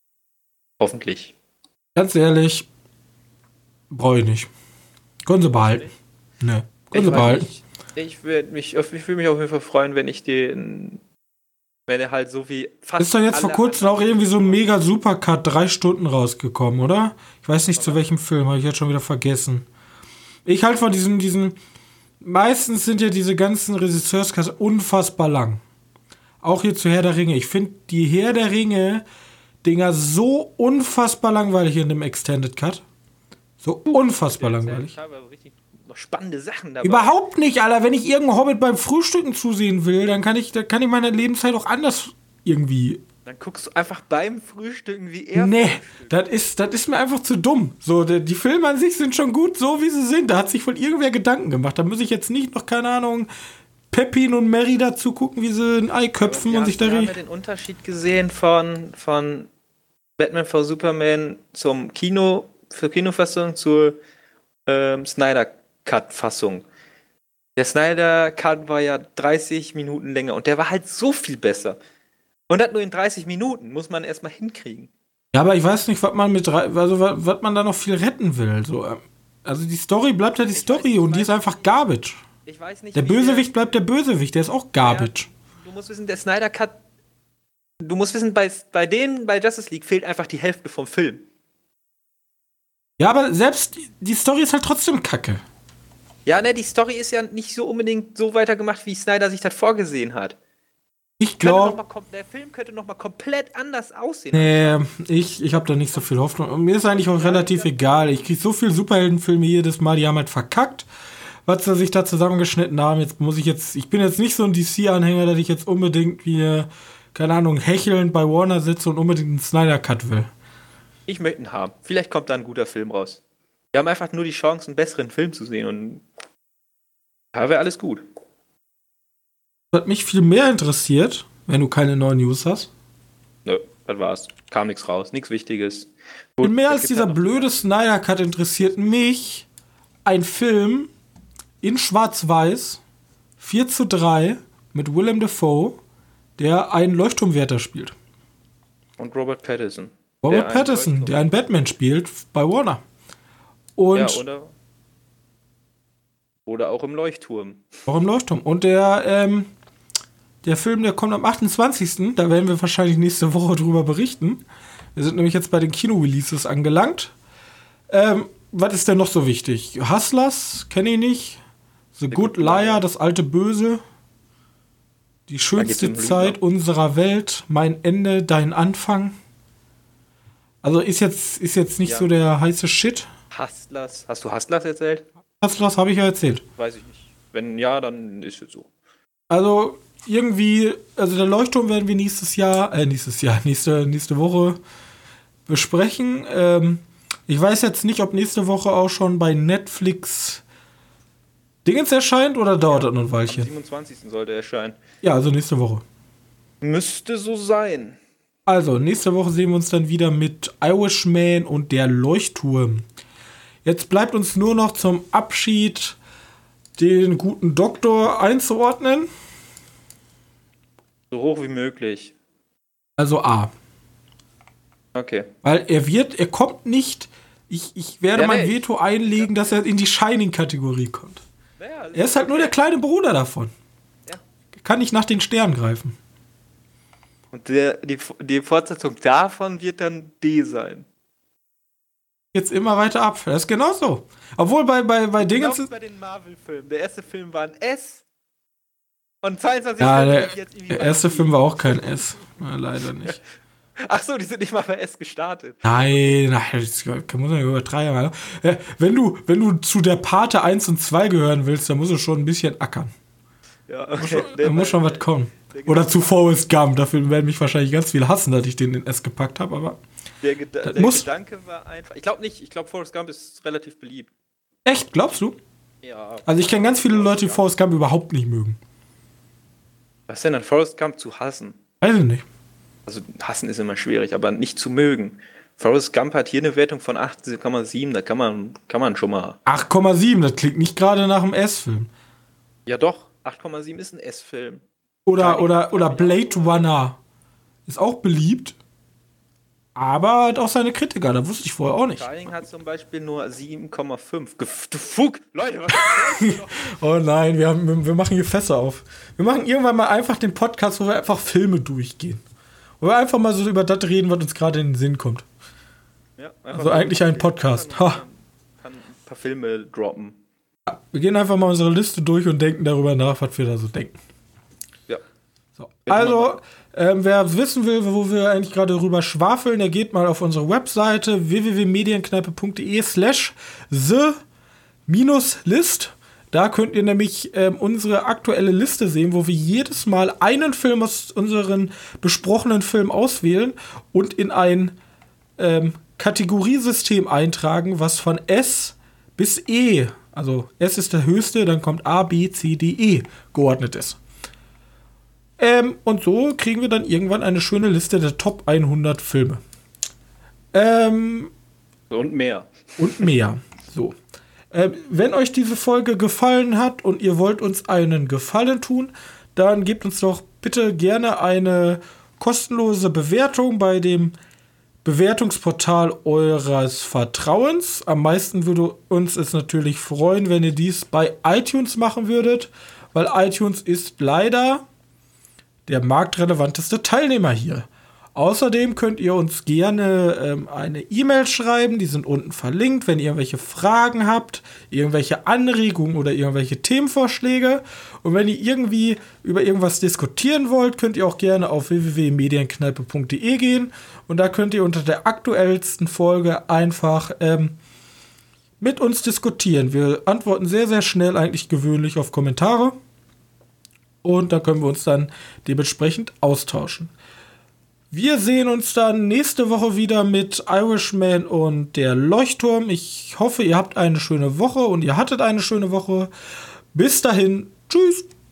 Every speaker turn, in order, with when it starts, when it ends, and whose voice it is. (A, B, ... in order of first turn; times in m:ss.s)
0:00.8-0:01.3 A
0:02.0-0:02.7 B
0:03.9-0:04.5 B
0:05.3-0:05.9 B
0:05.5-0:05.9 A
0:06.4-0:07.5 B
0:06.9-0:11.0 A
0:11.9-0:14.7 A
0:13.0-0:19.7 B
0:20.4-0:21.6 B
0:22.2-0:25.6 B
0:26.4-0:29.0 B
0:29.6-0:32.8 B
0:33.6-0:34.9 B
0:33.9-0:37.1 A
0:36.8-0:43.0 B
0:43.3-0:46.2 A
0:45.3-0:53.3 B
0:53.9-0:57.1 B
0:56.2-0:59.5 A
1:00.2-1:04.0 A
1:04.7-1:06.7 A
1:07.6-1:11.8 A
1:12.5-1:14.9 A
1:15.3-1:22.2 B
1:20.5-1:21.8 A
1:22.4-1:23.5 A
1:23.0-1:25.3 B
1:24.8-1:26.8 A
1:27.8-1:31.3 A
1:33.0-1:35.4 B
1:36.3-1:40.4 A
1:41.2-1:41.8 B
1:41.4-1:44.8 A
1:44.3-1:50.9 B
1:46.8-1:48.3 A
1:51.4-2:00.3 B
2:01.1-2:03.2 A
2:03.7-2:06.0 A
2:07.3-2:08.0 A
2:09.7-2:12.7 B
2:13.4-2:17.5 A
2:16.4-2:19.4 B
2:20.0-2:20.9 B
2:21.6-2:22.8 B
2:23.4-2:25.8 B
2:26.4-2:28.0 B
2:29.0-2:31.3 A
2:30.2-2:32.8 B
2:33.8-2:34.2 B
2:33.9-2:34.5 A
2:36.4-2:37.6 A
2:37.9-2:39.5 B
2:40.4-2:44.4 B
2:45.0-2:47.1 B
2:47.9-2:51.4 B
2:52.0-2:53.8 B
2:52.1-2:52.8 A
2:55.3-2:59.2 B
2:55.6-2:56.4 A
3:00.6-3:03.1 B
3:01.8-3:02.1 A
3:03.3-3:05.0 A
3:05.4-3:06.4 B
3:06.6-3:08.7 A
3:09.3-3:14.6 B
3:15.5-3:20.4 B
3:21.6-3:23.5 B
3:22.6-3:24.8 A
3:25.0-3:25.8 B
3:26.6-3:28.0 A
3:28.5-3:32.8 B
3:33.6-3:36.0 B
3:36.8-3:39.1 B
3:41.1-3:42.1 A
3:43.0-3:43.5 B
3:45.0-3:45.3 A
3:45.4-3:51.2 B
3:48.1-3:49.6 A
3:51.6-3:52.5 A
3:52.0-3:53.5 B
3:54.6-3:56.0 B
3:57.3-4:00.9 A
4:02.3-4:05.7 B
4:05.2-4:08.0 A
4:09.2-4:12.0 A
4:09.8-4:13.2 B
4:13.8-4:16.1 A
4:15.6-4:22.9 B
4:23.7-4:26.3 A
4:24.0-4:29.8 B
4:30.2-4:34.1 A
4:30.6-4:31.1 B
4:34.7-4:35.4 B
4:35.8-4:37.4 A
4:36.3-4:38.6 B
4:40.1-4:41.6 A
4:41.8-4:42.2 B
4:42.9-4:49.4 A
4:49.4-4:51.9 B
4:52.7-4:54.6 A
4:55.0-4:57.0 B
4:55.2-4:56.7 A
4:57.7-4:58.6 B
4:59.8-5:02.0 B
5:01.9-5:06.7 A
5:05.7-5:12.2 B
5:12.8-5:15.3 B
5:16.2-5:20.2 A
5:16.5-5:18.0 B
5:20.7-5:24.0 B
5:25.6-5:34.2 B
5:25.9-5:26.4 A
5:34.9-5:44.7 B
5:45.4-5:54.0 B
5:55.4-5:59.4 B
6:00.5-6:01.3 B
6:01.9-6:03.1 A
6:02.8-6:04.0 B
6:04.5-6:14.2 B
6:14.8-6:24.6 B
6:25.7-6:47.6 B
6:48.6-6:52.8 B
6:54.0-6:56.9 B
6:57.9-7:06.1 B
7:06.7-7:08.1 B